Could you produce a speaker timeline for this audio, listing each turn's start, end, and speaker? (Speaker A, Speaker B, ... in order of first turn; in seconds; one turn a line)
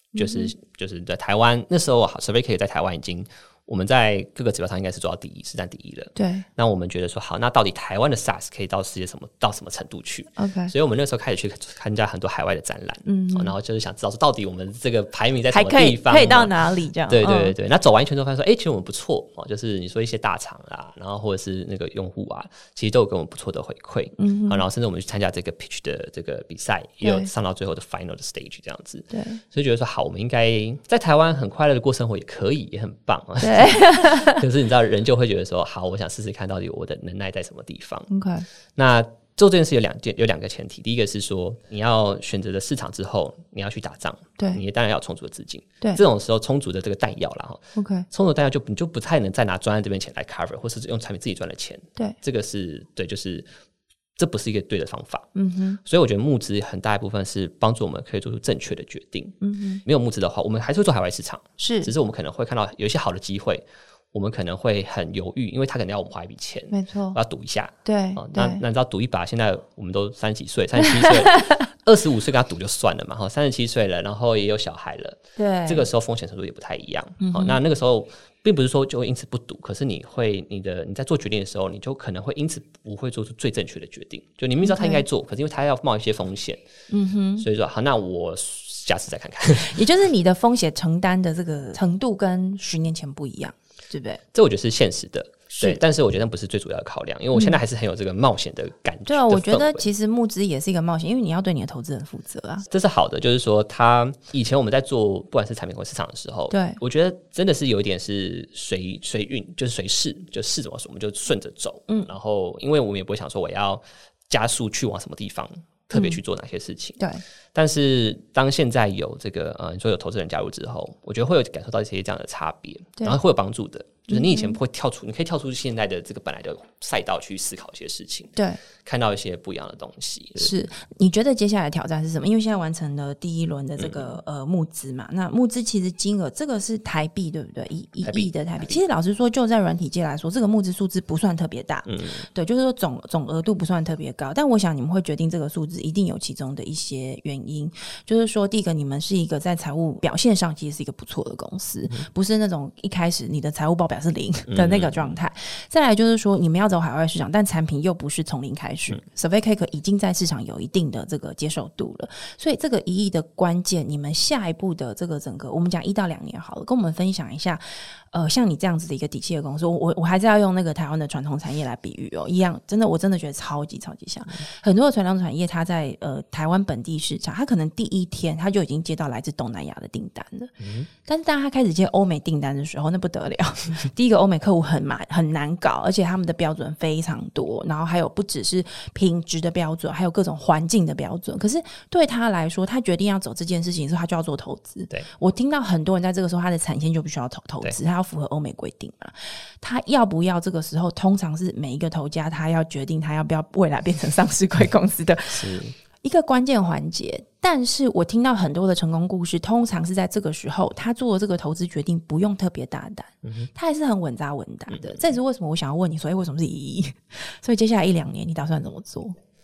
Speaker A: 0.1-0.5
Speaker B: 0.1-38.1
Speaker A: 6.2-6.5
Speaker A: 10.4-10.7
Speaker A: 13.1-13.5
Speaker A: 15.5-17.5
Speaker A: 24.2-24.6
Speaker A: 27.0-27.3
Speaker A: 29.1-29.4
Speaker A: 33.4-34.4
Speaker A: 38.1-38.5
Speaker B: 38.8-53.5
Speaker A: 47.8-48.1
Speaker B: 54.2-55.3
Speaker A: 55.3-55.8
Speaker B: 55.8-86.6
Speaker A: 59.4-59.8
Speaker A: 61.6-61.9
Speaker A: 66.7-67.2
Speaker A: 67.8-68.6
Speaker A: 70.8-71.6
Speaker A: 75.4-75.9
Speaker A: 77.2-77.6
Speaker A: 84.6-85.0
Speaker A: 86.9-87.5
Speaker B: 87.4-89.8
Speaker A: 89.6-94.2
Speaker B: 94.3-99.9
Speaker A: 95.5-95.8
Speaker A: 97.3-97.6
Speaker A: 99.0-102.6
Speaker B: 102.7-117.0
Speaker A: 106.5-106.8
Speaker A: 115.9-116.2
Speaker A: 117.0-117.2
Speaker B: 117.5-130.5
Speaker A: 124.1-124.6
Speaker A: 130.3-219.2
Speaker B: 133.8-134.2
Speaker B: 138.0-138.8
Speaker B: 141.9-142.2
Speaker B: 154.5-155.1
Speaker B: 180.6-180.9
Speaker B: 205.3-205.7
Speaker B: 214.7-215.0